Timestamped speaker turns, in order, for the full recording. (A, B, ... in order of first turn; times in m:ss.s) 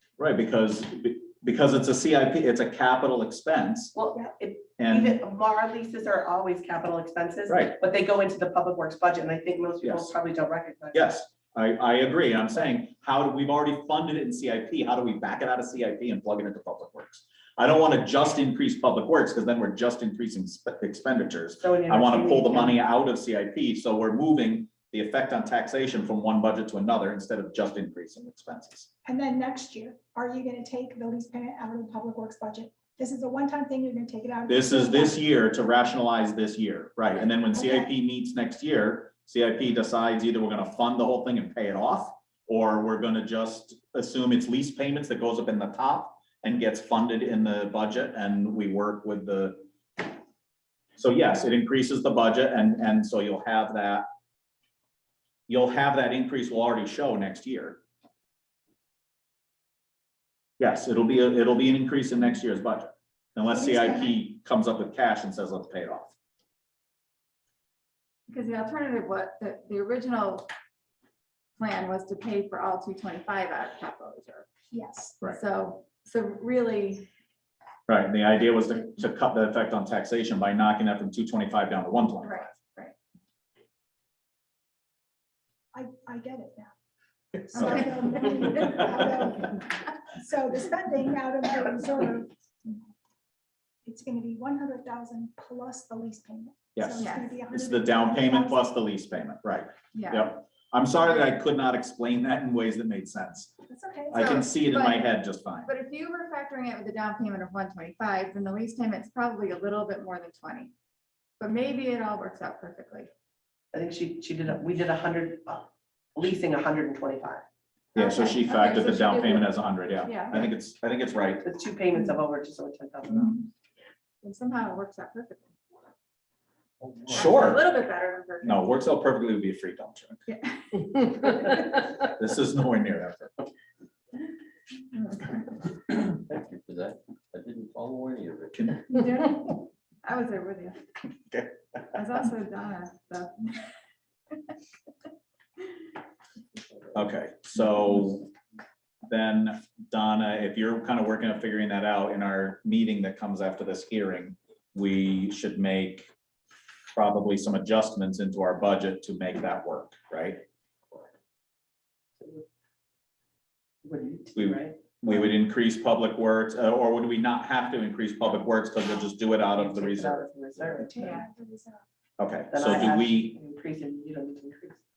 0:00.2-0:03.9 A
0:03.9-0:11.1 B
0:04.8-0:05.2 A
0:07.5-0:07.8 A
0:09.8-0:10.1 A
0:10.9-0:28.9 A
0:21.6-0:22.8 B
0:29.0-0:35.2 C
0:34.5-0:50.0 A
0:37.5-0:37.9 C
0:51.0-0:54.0 A
0:55.5-0:57.8 A
1:00.6-1:06.1 A
1:03.5-1:04.2 C
1:08.3-1:10.5 D
1:11.6-1:14.5 D
1:14.7-1:15.2 C
1:15.3-1:17.1 D
1:17.9-1:22.6 A
1:22.2-1:22.9 D
1:25.7-1:26.7 C
1:27.4-1:32.3 C
1:27.5-1:27.8 A
1:33.8-1:38.7 C
1:36.8-1:43.5 A
1:37.0-1:37.4 D
1:39.9-1:40.3 D
1:43.7-1:44.3 C
1:44.1-1:45.7 A
1:44.2-1:50.7 D
1:51.4-1:53.1 D
1:53.7-1:57.4 B
1:58.0-2:01.4 A
1:58.0-2:00.5 D
2:01.4-2:03.4 B
2:04.2-2:05.5 D
2:06.8-2:07.5 E
2:07.1-2:07.6 A
2:07.1-2:08.7 D
2:08.4-2:10.2 A
2:10.3-2:11.6 D
2:12.0-2:13.3 A
2:14.9-2:15.4 D
2:16.1-2:18.9 E
2:18.9-2:20.8 D
2:21.9-2:23.7 D
2:26.9-2:28.3 A
2:29.1-2:36.1 A
2:36.9-2:40.4 A
2:43.8-2:44.8 B
2:44.4-2:50.3 A
2:49.6-2:51.1 B
2:50.7-2:51.8 C
2:52.2-2:53.4 A
2:52.5-2:54.8 B